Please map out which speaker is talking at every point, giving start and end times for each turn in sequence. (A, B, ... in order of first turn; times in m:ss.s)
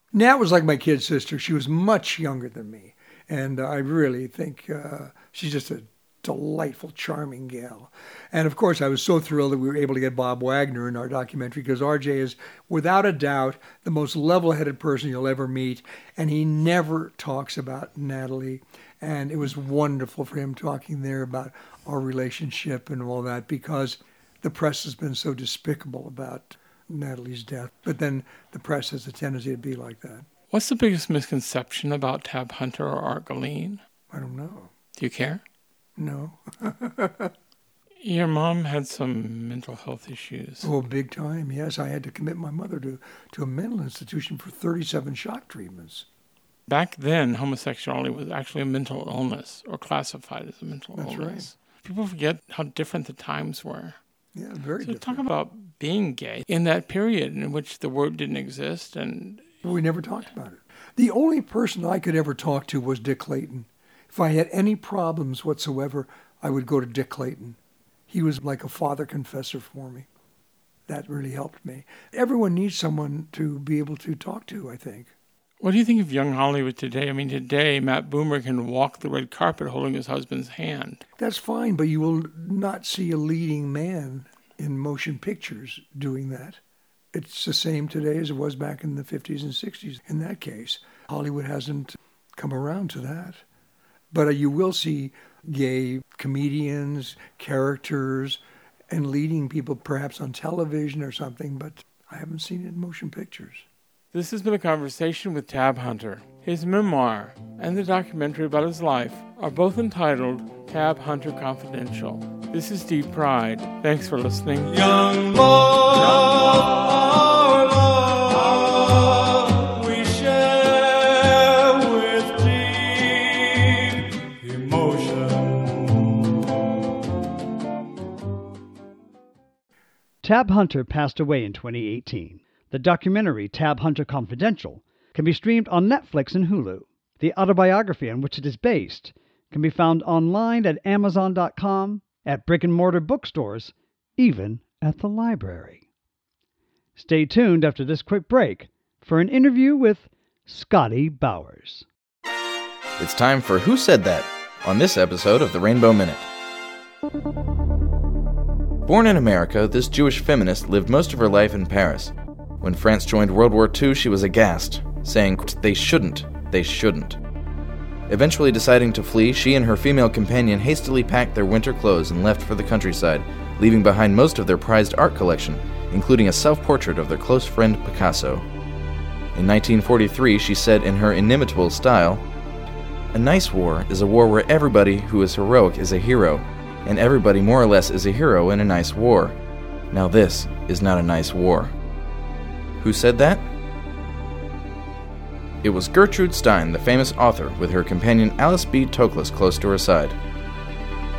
0:00.1-0:30.2 A
0:30.5-0:33.8 B
0:34.1-0:34.7 A
0:35.0-0:35.4 B
0:36.0-0:37.3 A
0:38.0-0:40.7 B
0:40.6-0:46.0 A
0:46.7-0:54.0 B
0:50.9-0:51.5 A
0:54.3-0:55.3 A
0:54.8-0:59.6 B
0:59.6-1:07.6 A
1:08.1-1:10.1 A
1:10.9-1:15.1 A
1:15.6-1:21.0 B
1:21.2-1:26.6 A
1:27.1-1:33.4 A
1:34.1-1:43.6 A
1:44.1-1:55.0 B
1:55.2-1:57.0 C
1:59.9-2:00.2 C
2:01.8-2:02.4 C
2:10.2-2:25.8 D
2:27.0-2:31.8 D
2:33.0-2:36.2 E
2:38.8-2:47.2 E
2:48.1-2:58.4 E
2:59.3-3:02.2 E
3:03.1-3:09.4 E
3:09.9-3:11.7 E
3:12.8-3:13.4 E
3:15.6-3:20.2 E